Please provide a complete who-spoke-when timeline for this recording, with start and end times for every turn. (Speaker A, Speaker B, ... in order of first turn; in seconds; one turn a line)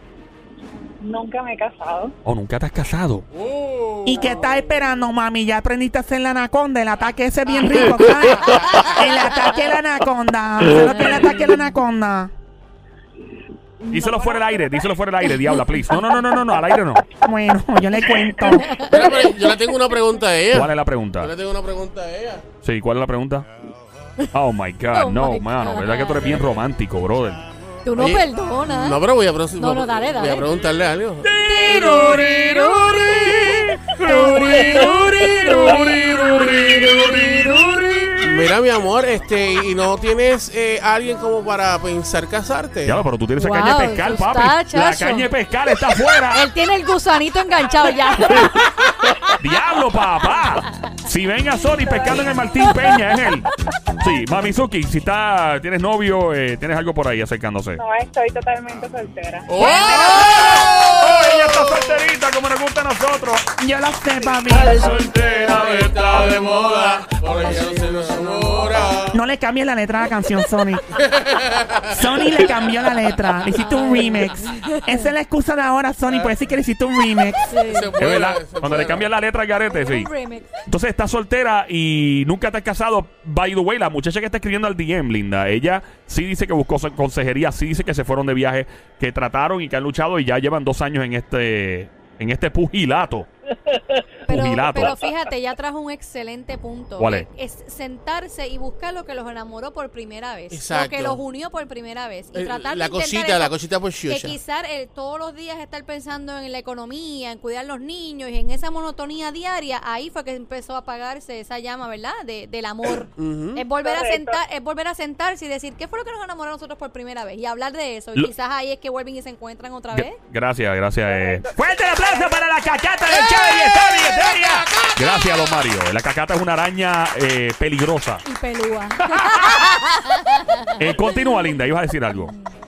Speaker A: 1.0-2.1
Speaker B: 2.2-3.2
Speaker C: 3.3-4.8
Speaker D: 4.0-12.3
Speaker E: 10.9-11.6
Speaker A: 13.8-15.0
Speaker B: 13.9-17.1
Speaker D: 17.2-18.8
Speaker E: 18.7-19.0
Speaker C: 18.8-22.5
Speaker B: 20.5-21.3
Speaker B: 22.6-23.5
Speaker B: 24.3-27.4
Speaker E: 24.9-26.4
Speaker E: 27.9-29.0
Speaker C: 28.0-31.3
Speaker E: 29.6-30.5
Speaker B: 31.2-38.5
Speaker E: 31.4-37.8
Speaker C: 38.2-43.0
Speaker B: 42.9-46.4
Speaker E: 43.4-45.3
Speaker E: 46.3-49.3
Speaker A: 47.6-48.0
Speaker B: 49.4-57.8
Speaker A: 51.7-52.7
Speaker A: 57.8-59.9
Speaker C: 59.5-61.9
Speaker E: 59.6-60.3
Speaker B: 60.0-63.5
Speaker D: 63.6-64.9
Speaker C: 64.5-69.2
Speaker D: 69.1-71.0
Speaker C: 71.0-71.9
Speaker D: 71.9-77.5
Speaker E: 73.5-75.1
Speaker C: 76.1-76.4
Speaker E: 77.5-77.9
Speaker C: 77.6-79.1
Speaker B: 78.0-80.1
Speaker E: 79.7-80.5
Speaker B: 80.7-93.3
Speaker E: 94.3-103.5
Speaker B: 94.3-95.0
Speaker B: 97.0-97.3
Speaker C: 100.5-101.2
Speaker C: 102.3-104.4
Speaker E: 104.1-120.2
Speaker C: 113.2-113.7
Speaker A: 113.8-114.4
Speaker B: 119.9-128.2
Speaker A: 121.0-122.9
Speaker C: 124.1-124.9
Speaker E: 128.2-131.1
Speaker B: 129.1-129.5
Speaker B: 130.8-132.3
Speaker E: 132.1-132.6